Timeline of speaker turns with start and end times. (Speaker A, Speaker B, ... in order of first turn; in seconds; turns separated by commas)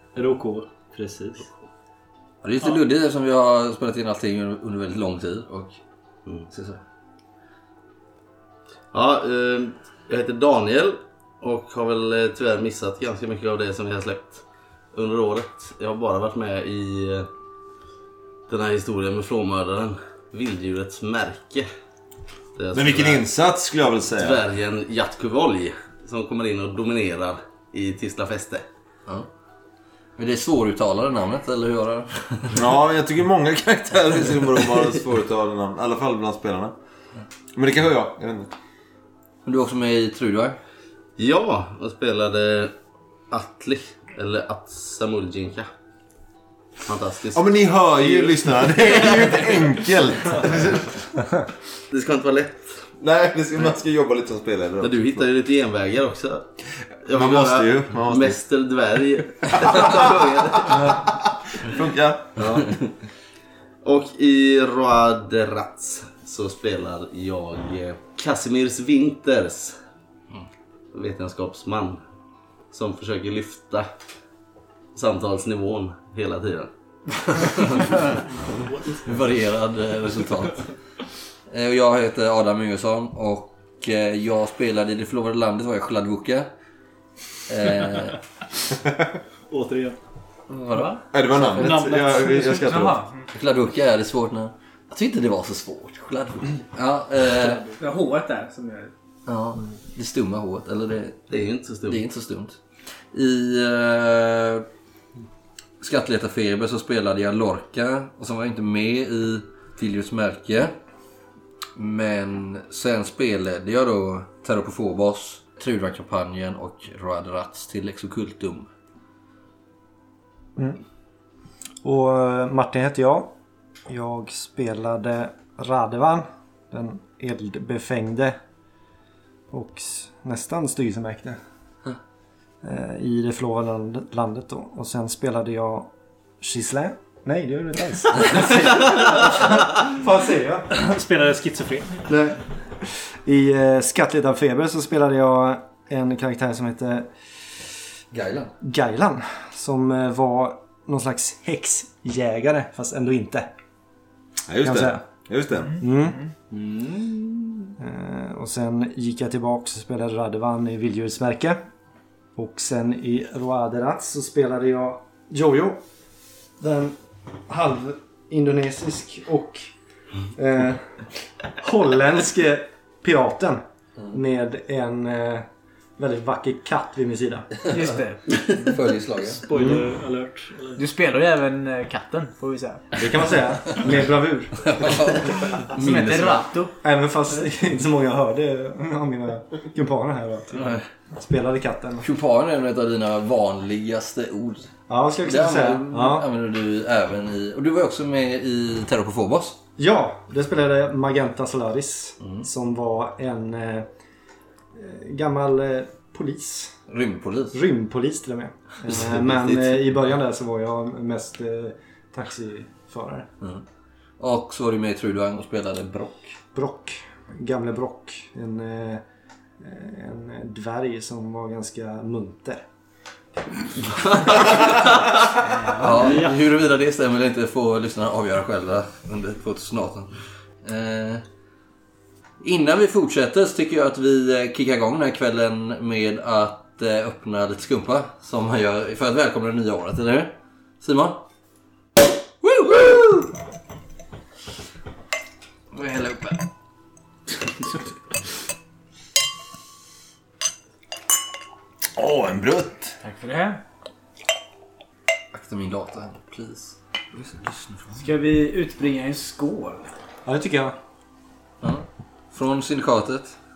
Speaker A: 0.1-1.5, Speaker B: 2.4-5.8, Speaker B: 6.5-6.8, Speaker C: 8.9-17.3, Speaker C: 18.5-21.7, Speaker C: 22.6-23.3, Speaker D: 22.7-24.4, Speaker C: 24.2-28.6, Speaker B: 30.2-32.5, Speaker D: 32.5-36.7, Speaker D: 37.5-38.5, Speaker B: 39.5-40.6, Speaker C: 41.2-42.7, Speaker C: 43.3-45.7, Speaker C: 46.8-50.4, Speaker D: 47.3-51.0, Speaker C: 51.9-52.9, Speaker D: 53.0-55.3, Speaker C: 54.8-56.5, Speaker C: 57.0-60.9, Speaker D: 57.1-58.4, Speaker D: 59.5-62.4, Speaker C: 62.4-62.7, Speaker C: 63.8-69.8, Speaker C: 70.9-72.0, Speaker C: 72.7-73.9, Speaker C: 74.9-76.7, Speaker B: 77.4-77.9, Speaker B: 78.9-80.7, Speaker B: 81.5-86.5, Speaker B: 87.5-88.2, Speaker A: 89.5-90.0, Speaker B: 90.5-91.7, Speaker E: 90.7-91.0, Speaker D: 91.1-93.0, Speaker A: 91.5-92.7, Speaker E: 92.5-93.2, Speaker B: 93.3-97.6, Speaker E: 97.3-98.9, Speaker B: 99.3-101.3, Speaker C: 101.3-102.0, Speaker B: 101.8-102.6, Speaker B: 103.1-104.6, Speaker B: 105.8-110.7, Speaker B: 111.8-118.7, Speaker F: 121.8-123.3, Speaker F: 123.9-128.4, Speaker F: 129.5-131.4, Speaker F: 132.6-135.9, Speaker F: 136.4-140.6, Speaker A: 140.7-142.1, Speaker F: 142.1-147.1, Speaker B: 148.1-148.5, Speaker F: 148.6-153.5, Speaker D: 154.5-155.8, Speaker F: 154.6-155.0, Speaker F: 155.8-156.2, Speaker A: 156.5-157.4, Speaker F: 157.8-161.6, Speaker F: 162.3-165.8, Speaker F: 166.6-166.9, Speaker F: 167.5-169.7, Speaker F: 170.3-170.9, Speaker F: 171.6-175.4, Speaker F: 176.0-177.6, Speaker E: 177.6-178.8, Speaker B: 178.4-179.4, Speaker A: 179.4-180.8, Speaker E: 180.8-182.9, Speaker F: 183.0-184.9, Speaker B: 184.6-186.4, Speaker E: 185.8-186.7, Speaker F: 186.8-190.6, Speaker B: 190.6-190.8, Speaker F: 191.2-192.1, Speaker B: 192.0-194.7, Speaker F: 194.9-196.2, Speaker B: 195.2-199.6, Speaker F: 199.8-203.8, Speaker F: 204.7-206.7, Speaker B: 206.9-207.6, Speaker F: 207.5-213.3, Speaker B: 209.4-209.7, Speaker B: 214.2-216.3, Speaker F: 216.5-219.0, Speaker F: 219.6-222.6, Speaker B: 223.9-224.8, Speaker E: 225.4-226.2, Speaker B: 225.8-230.1, Speaker B: 230.6-231.2, Speaker B: 232.4-241.2, Speaker B: 242.4-243.3, Speaker B: 245.7-246.4, Speaker D: 252.0-252.9, Speaker E: 253.0-253.6, Speaker B: 255.3-258.0, Speaker E: 257.9-259.9, Speaker F: 260.2-260.8, Speaker B: 261.6-263.4